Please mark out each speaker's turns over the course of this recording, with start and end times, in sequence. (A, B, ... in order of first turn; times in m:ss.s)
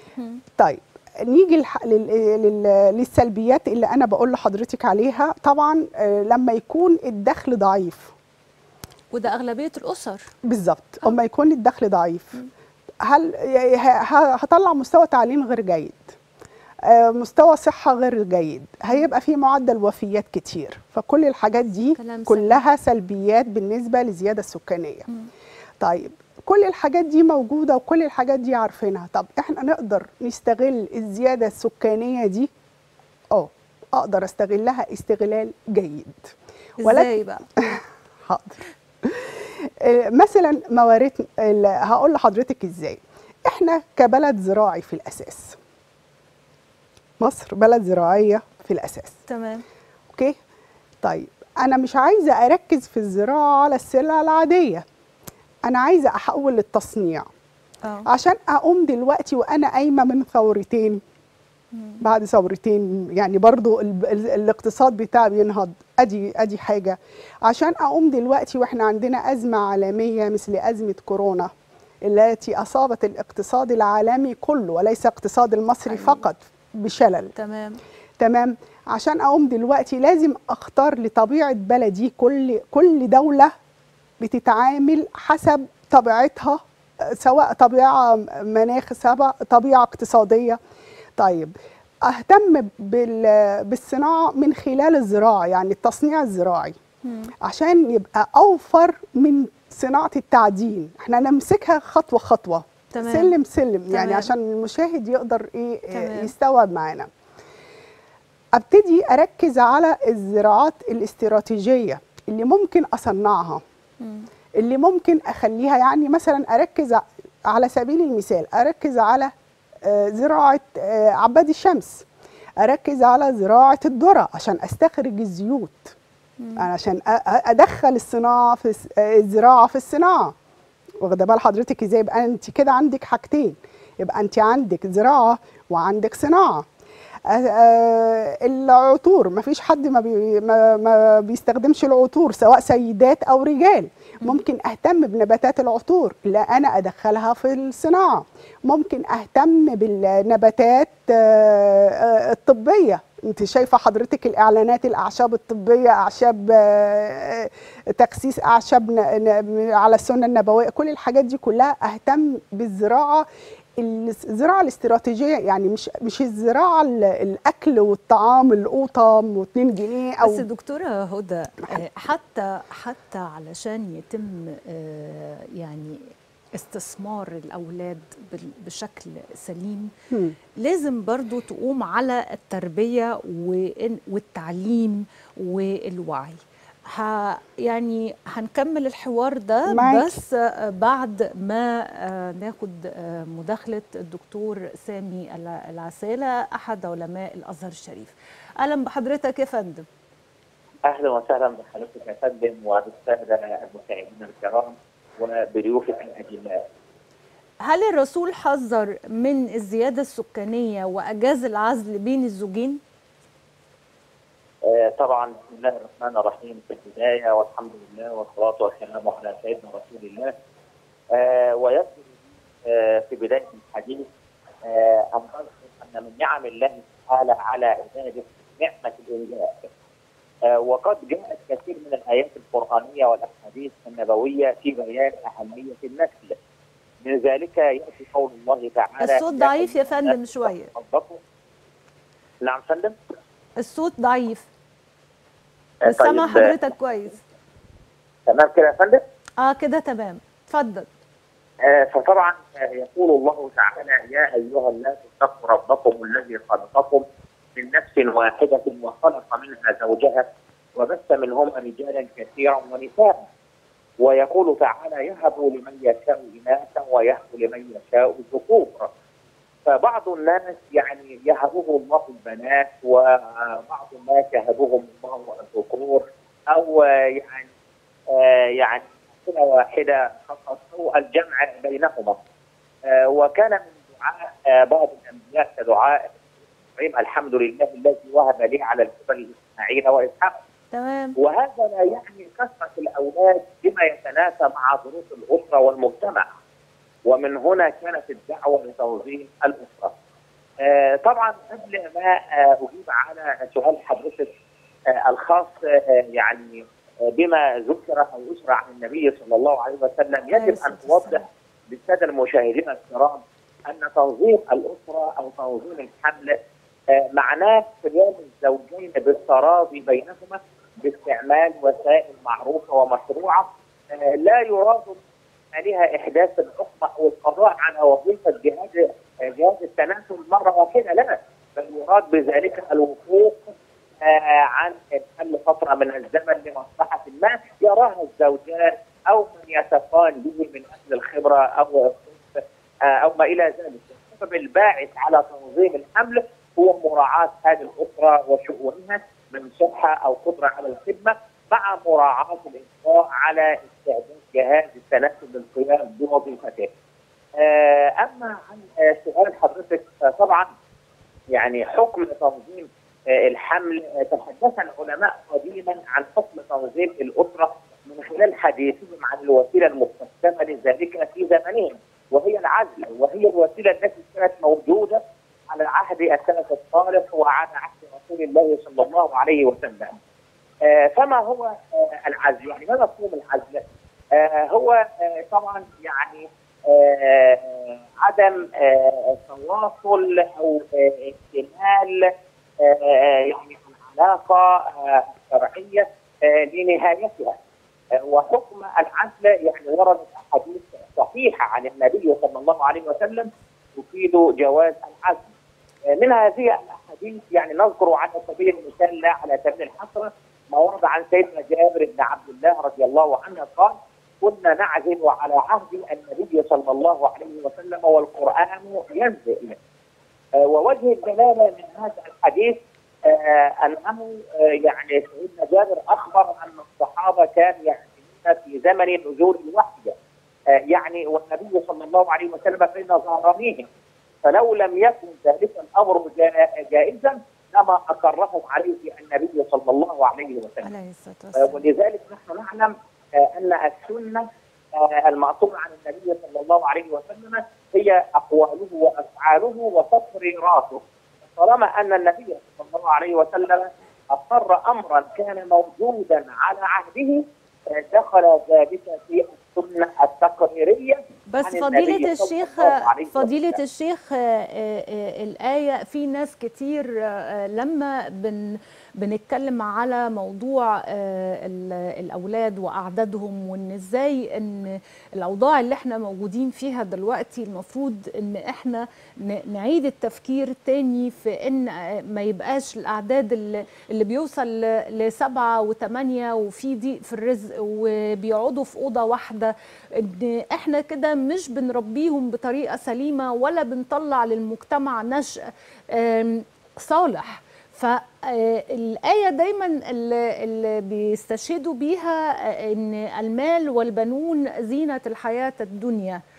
0:00.2-0:00.4 A
0:00.6-0:08.1 B
0:09.1-0:10.3 A
0:10.5-0:12.4 B
0:13.0-0:16.1 B
0:16.8-0:25.1 B
0:22.0-0:22.6 A
0:25.8-0:32.5 B
0:33.3-0:45.6 B
0:36.8-0:37.5 A
0:47.2-0:49.2 B
0:49.3-0:49.6 A
0:50.1-0:50.4 B
0:51.0-0:54.8 B
0:55.6-0:57.3 B
0:58.1-1:01.0 B
1:01.7-1:02.0 A
1:02.0-1:11.5 B
1:12.0-1:17.3 B
1:15.9-1:16.2 A
1:17.4-1:17.8 A
1:18.2-1:23.5 B
1:24.2-1:30.6 B
1:31.2-1:31.5 B
1:32.0-1:36.8 B
1:37.0-1:37.3 A
1:37.4-1:47.1 B
1:42.9-1:43.4 A
1:43.9-1:44.3 A
1:45.9-1:46.3 A
1:48.5-1:53.6 B
1:54.0-1:54.3 A
1:54.6-2:02.0 B
2:02.6-2:06.0 B
2:06.4-2:06.7 A
2:06.6-2:10.4 B
2:11.0-2:16.7 B
2:17.3-2:43.3 B
2:43.8-2:50.5 B
2:50.2-2:59.9 A
3:00.1-3:00.4 B
3:00.6-3:19.9 A
3:09.7-3:10.2 B
3:20.9-3:26.6 C
3:27.6-3:32.8 A
3:34.6-3:40.3 C
3:41.1-3:42.0 C
3:42.6-3:44.1 C
3:44.6-3:49.7 C
3:50.5-3:56.4 C
3:57.0-4:01.2 C
3:59.0-4:00.7 A
4:02.4-4:03.0 C
4:03.6-4:04.5 A
4:05.8-4:06.5 C
4:05.8-4:07.2 A
4:08.3-4:09.0 C
4:09.4-4:10.9 A
4:11.6-4:17.0 C
4:17.6-4:23.3 C
4:24.0-4:28.9 C
4:29.7-4:37.5 C
4:38.1-4:42.2 C
4:42.9-4:46.1 C
4:46.8-4:50.4 C
4:50.7-4:51.2 A
4:51.2-4:56.3 C
4:57.1-4:59.9 C
5:00.6-5:04.3 C
5:04.9-5:16.4 C
5:10.3-5:11.2 A
5:16.9-5:25.0 C
5:25.5-5:56.7 C
5:57.4-6:00.5 C
6:01.3-6:20.0 C
6:20.6-6:37.4 C
6:38.0-6:45.3 C
6:45.9-6:59.6 C
7:00.4-7:10.0 C
7:10.5-7:13.7 C
7:14.2-7:20.7 C
7:20.6-7:21.6 A
7:21.4-7:30.8 C
7:31.4-7:43.6 C
7:41.3-8:15.4 A
8:15.9-8:26.2 A